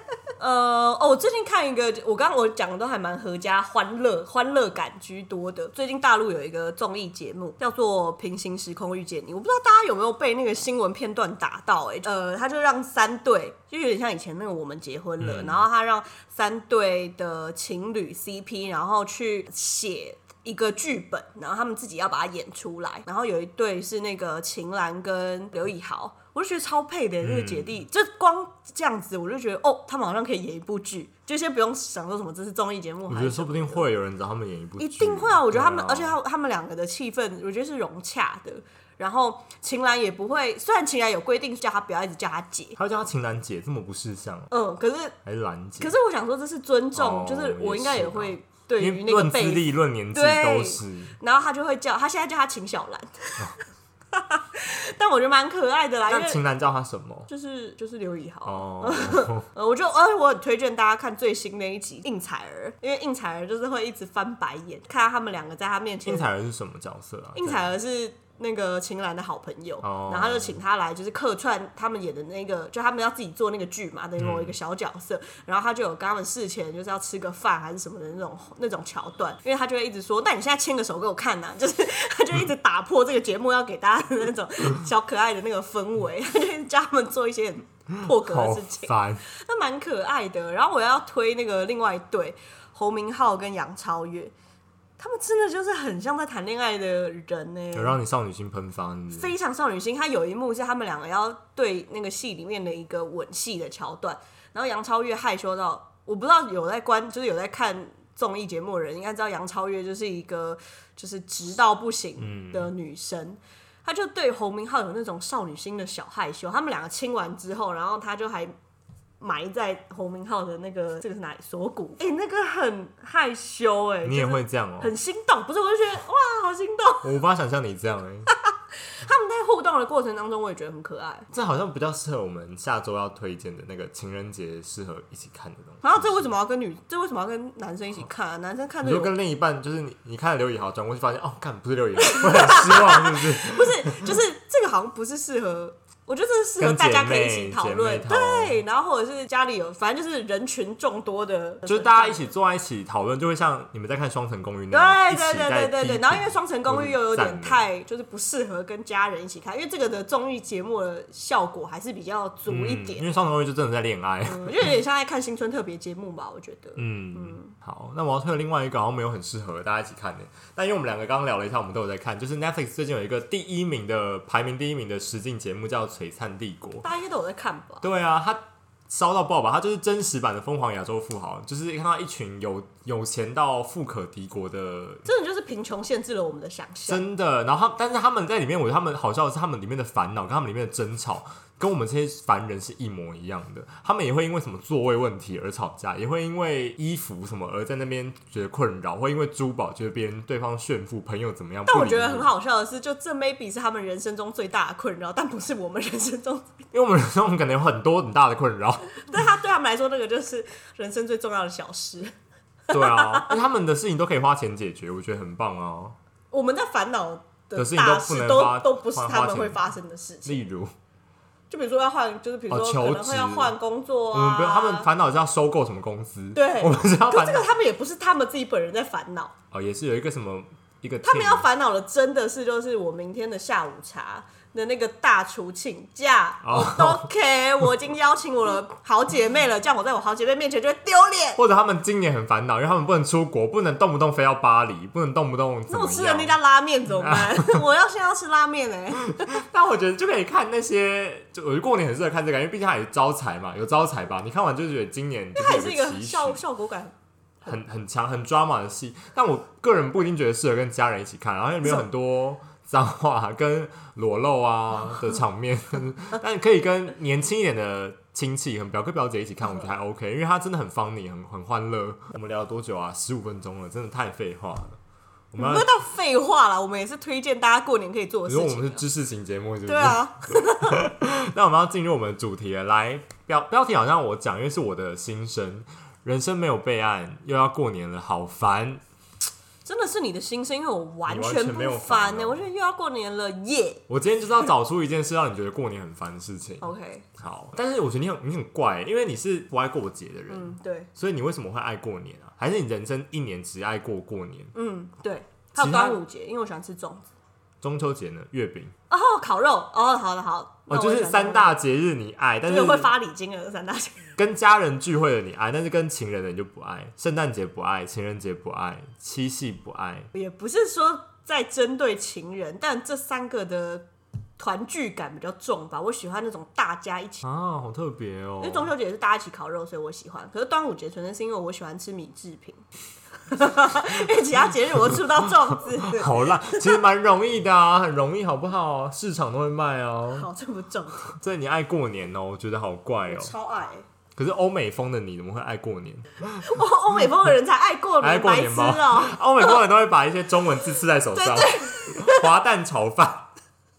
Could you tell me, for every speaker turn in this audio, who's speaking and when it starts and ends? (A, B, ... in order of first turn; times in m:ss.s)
0:00.4-0:33.9 A
0:15.2-0:15.7 B
0:27.2-0:27.8 B
0:33.1-0:36.2 B
0:34.8-0:42.8 A
0:42.8-0:44.5 B
0:44.5-0:45.2 A
0:45.2-0:46.0 B
0:45.8-0:53.6 A
0:47.0-0:51.2 B
0:54.1-0:56.4 A
0:56.1-0:57.3 B
0:57.3-1:06.3 A
0:58.4-0:59.5 B
1:06.0-1:07.7 B
1:07.4-1:34.3 A
1:09.8-1:10.6 B
1:14.2-1:14.6 B
1:28.0-1:29.2 B
1:35.0-1:38.0 A
1:37.7-1:39.3 B
1:39.1-1:58.5 A
1:52.2-1:52.7 B
1:59.2-2:07.1 A
2:04.0-2:04.9 B
2:07.0-2:08.3 B
2:08.4-2:11.3 A
2:11.3-2:16.3 B
2:15.8-2:19.1 A
2:18.8-2:24.2 B
2:22.0-2:32.3 A
2:26.6-2:28.6 B
2:31.7-2:37.6 B
2:34.7-2:43.1 A
2:42.5-2:44.8 B
2:44.2-2:47.5 A
2:46.8-2:56.9 B
2:56.8-2:57.9 A
2:57.8-3:05.1 B
3:05.0-3:07.0 A
3:06.9-3:22.3 B
3:21.7-3:26.6 A
3:26.7-3:29.1 B
3:29.0-3:32.1 A
3:32.7-3:33.4 A
3:32.7-3:36.0 B
3:36.3-3:40.4 A
3:37.6-3:39.7 B
3:40.2-3:40.7 B
3:41.5-3:44.9 A
3:42.5-3:43.6 B
3:44.1-3:47.5 B
3:46.4-3:49.3 A
3:49.5-3:51.5 B
3:51.0-4:01.4 A
3:56.4-3:57.1 B
4:01.4-4:06.4 B
4:05.7-4:09.4 A
4:06.9-4:07.6 B
4:09.0-4:16.4 B
4:15.4-4:17.6 A
4:17.5-4:34.8 B
4:35.3-4:35.7 B
4:35.4-4:38.8 A
4:38.3-4:48.8 B
4:39.7-4:40.8 A
4:49.6-4:53.8 A
4:51.1-4:52.5 B
4:53.9-4:56.7 B
4:56.6-4:57.1 A
4:57.2-5:04.5 B
5:00.3-5:00.9 A
5:04.5-5:07.1 A
5:05.6-5:06.0 B
5:07.6-5:08.7 B
5:08.9-5:11.6 A
5:10.7-5:12.9 B
5:12.5-5:14.1 A
5:14.2-5:20.1 B
5:20.1-5:23.9 A
5:24.4-5:27.2 A
5:27.2-5:28.7 B
5:28.4-5:32.6 A
5:33.3-5:36.8 A
5:34.7-5:40.3 B
5:40.2-5:41.2 A
5:41.1-5:43.3 B
5:43.1-5:43.8 A
5:44.2-5:47.1 B
5:46.4-5:49.2 A
5:48.0-5:53.3 B
5:51.2-5:52.3 A